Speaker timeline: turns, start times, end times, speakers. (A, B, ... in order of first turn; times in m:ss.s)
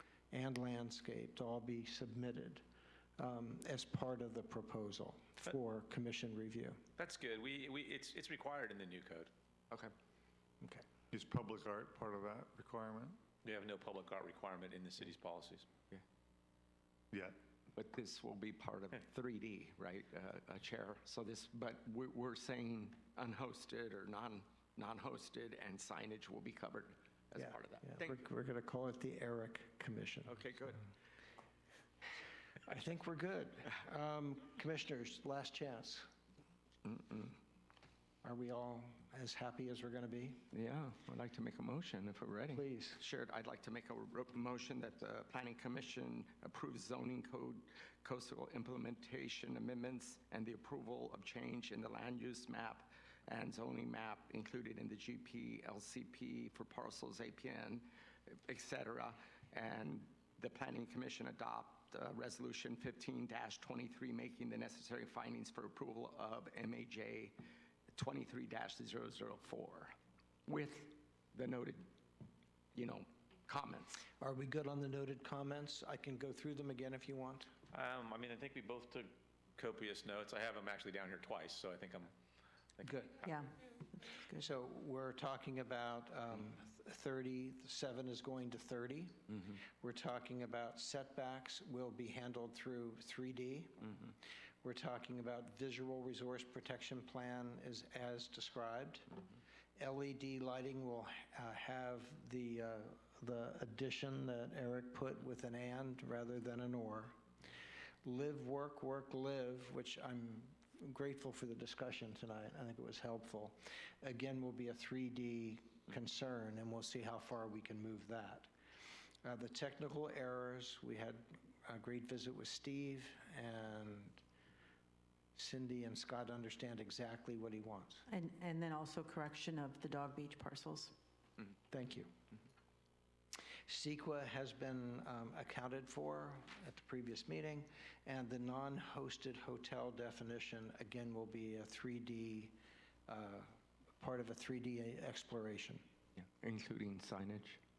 0:00.3-0:02.6 A
0:03.2-0:06.8 A
0:07.0-0:09.3 B
0:11.1-0:13.2 C
0:13.4-0:15.7 B
0:17.7-0:28.2 D
0:27.4-0:30.3 A
0:30.2-0:30.8 D
0:32.6-0:36.0 A
0:36.9-0:37.3 D
0:38.2-0:40.5 A
0:40.5-1:07.3 D
0:42.5-0:43.0 A
1:07.9-1:09.9 D
1:10.5-1:11.8 D
1:12.7-1:14.0 D
1:14.2-1:17.5 A
1:17.7-1:22.1 B
1:22.8-1:23.3 A
1:23.2-1:24.5 E
1:24.3-1:34.0 A
1:34.6-1:39.1 A
1:39.8-1:47.2 A
1:48.0-1:58.5 A
1:59.2-2:04.2 A
2:05.4-2:08.0 A
2:08.1-2:10.9 E
2:11.7-2:12.1 A
2:13.7-2:22.5 A
2:23.1-2:25.8 A
2:26.2-2:27.6 D